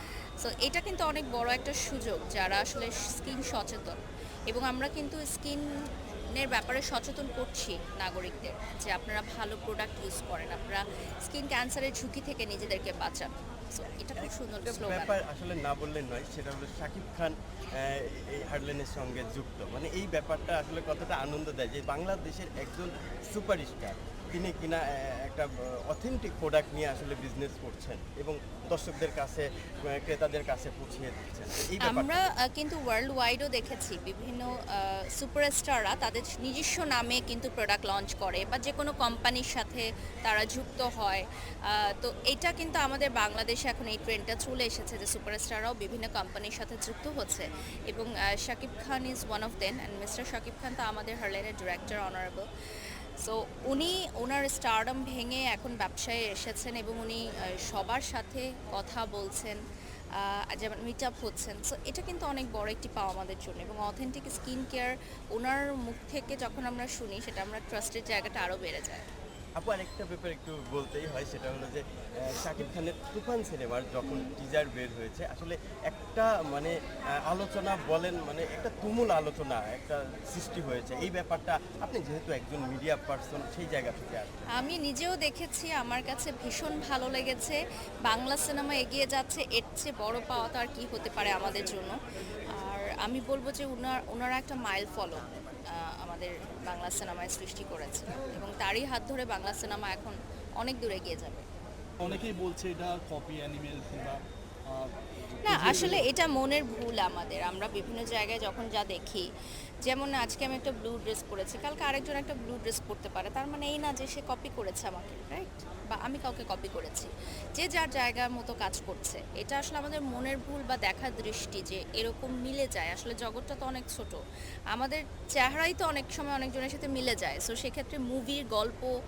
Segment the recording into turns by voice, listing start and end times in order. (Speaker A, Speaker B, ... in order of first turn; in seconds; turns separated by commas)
Speaker A: 0.4-5.7, Speaker A: 6.3-15.2, Speaker B: 14.2-32.2, Speaker A: 31.8-52.5, Speaker A: 53.2-59.6, Speaker A: 60.2-69.0, Speaker B: 69.6-84.5, Speaker A: 74.0-74.3, Speaker A: 84.5-92.0, Speaker A: 92.5-101.5, Speaker C: 102.0-106.1, Speaker A: 105.5-109.3, Speaker A: 109.8-124.2, Speaker A: 124.7-128.9